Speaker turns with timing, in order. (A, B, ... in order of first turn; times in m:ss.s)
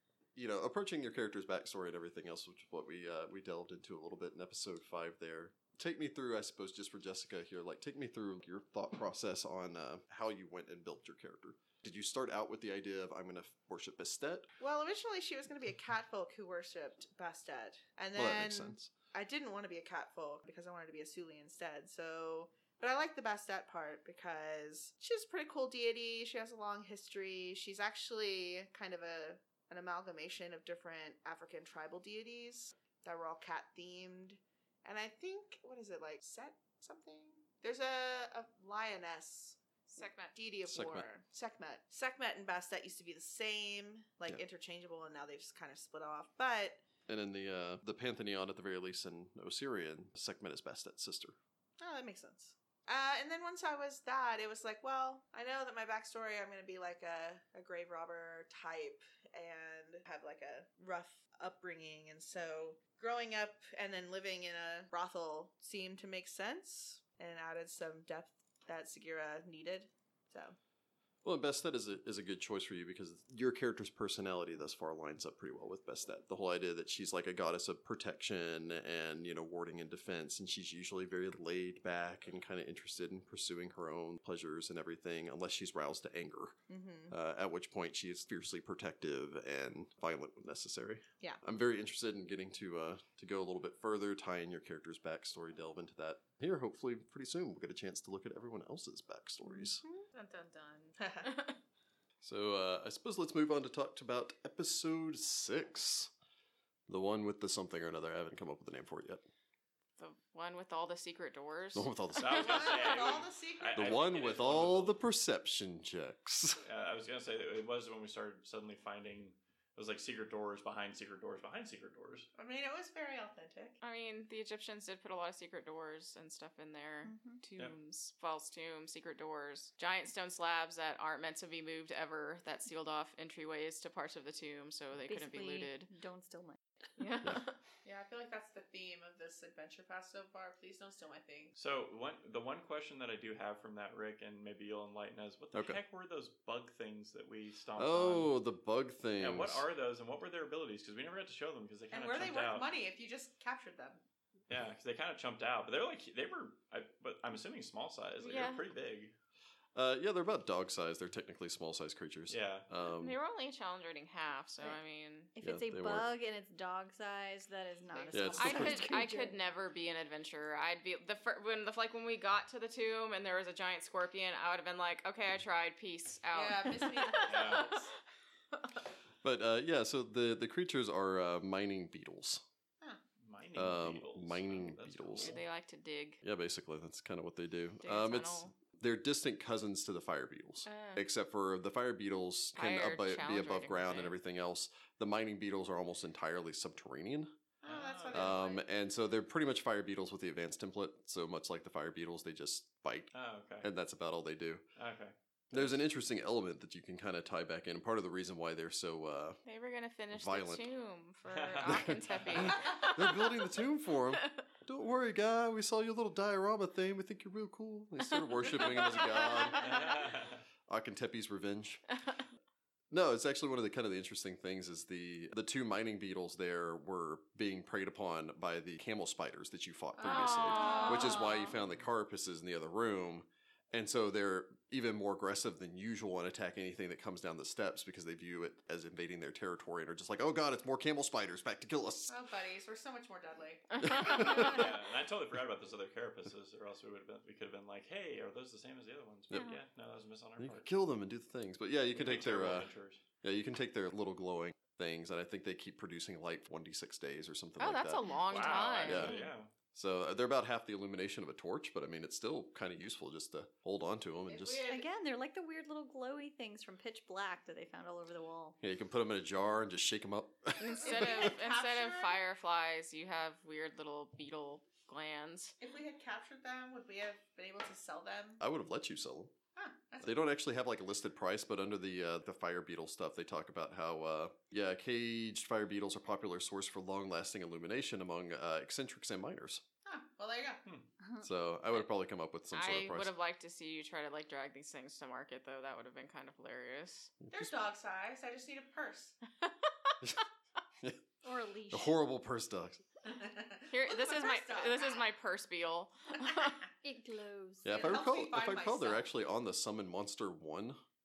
0:00.4-0:14.5 A
0:14.6-0:39.6 B
0:18.2-0:18.9 A
0:39.9-0:40.4 C
0:40.3-0:46.8 B
0:40.6-0:41.0 A
0:47.1-0:51.4 A
0:51.8-1:10.6 B
1:11.2-1:39.8 A
1:26.7-1:27.1 B
1:39.6-1:40.1 B
1:40.1-1:41.6 C
1:41.0-1:41.3 B
1:42.2-1:46.1 A
1:46.9-1:49.2 A
1:50.0-1:52.6 C
1:51.7-1:52.8 A
1:52.2-1:55.0 D
1:52.4-1:54.1 B
1:53.8-1:56.6 A
1:56.6-2:02.3 D
2:02.4-2:03.8 B
2:03.8-2:15.9 C
2:07.0-2:07.4 E
2:15.1-2:16.6 E
2:17.0-2:17.6 C
2:17.8-2:21.5 B
2:21.6-2:28.3 D
2:25.5-2:25.8 A
2:27.8-2:29.6 A
2:29.2-2:32.7 D
2:31.9-2:34.0 B
2:34.5-2:39.1 D
2:38.2-2:38.6 C
2:39.8-2:43.2 A
2:42.3-2:42.6 D
2:42.8-2:45.3 C
2:45.3-2:49.4 E
2:45.4-2:46.1 A
2:47.9-2:48.6 B
2:48.1-2:48.9 A
2:48.4-2:57.9 C
2:56.3-2:57.9 B
2:57.2-2:57.8 D
2:59.2-3:02.4 A
3:03.2-3:05.4 D
3:03.6-3:05.4 A
3:05.2-3:06.2 C
3:06.2-3:17.3 A
3:07.8-3:08.5 C
3:10.6-3:11.0 C
3:12.6-3:14.2 C
3:17.6-3:18.3 D
3:17.6-3:18.6 B
3:18.1-3:24.6 A
3:23.1-3:23.7 D
3:24.8-3:25.8 D
3:25.5-3:29.4 A
3:29.5-3:34.3 C
3:30.1-3:30.7 A
3:31.3-3:32.6 D
3:31.6-3:40.1 A
3:38.4-3:40.1 C
3:39.5-3:40.4 D
3:40.7-3:41.8 A
3:42.9-4:02.1 A
3:50.0-3:51.4 B
3:50.0-3:51.6 C
4:02.1-4:04.5 B
4:03.8-4:04.6 A
4:03.9-4:04.6 C
4:04.1-4:10.7 D
4:09.3-4:09.6 E
4:10.4-4:18.0 A
4:11.9-4:13.0 D
4:17.6-4:19.3 C
4:18.3-4:19.5 D
4:18.8-4:19.2 A
4:19.7-4:24.6 A
4:24.3-4:24.9 B
4:24.6-4:28.6 E
4:28.6-4:31.4 A
4:30.6-4:35.5 C
4:30.8-4:32.2 B
4:35.6-4:38.4 B
4:38.4-4:39.4 A
4:39.5-4:40.2 B
4:40.0-4:49.6 A
4:49.8-4:50.6 B
4:51.0-4:51.3 E
4:51.2-4:53.1 A
4:52.5-4:57.2 C
4:57.2-4:57.5 A
4:57.3-4:59.2 B
4:59.4-5:00.1 C
5:01.2-5:02.0 E
5:01.7-5:02.8 A
5:03.0-5:05.1 B
5:03.7-5:06.6 C
5:06.8-5:07.9 E
5:07.6-5:10.8 A
5:07.6-5:09.0 B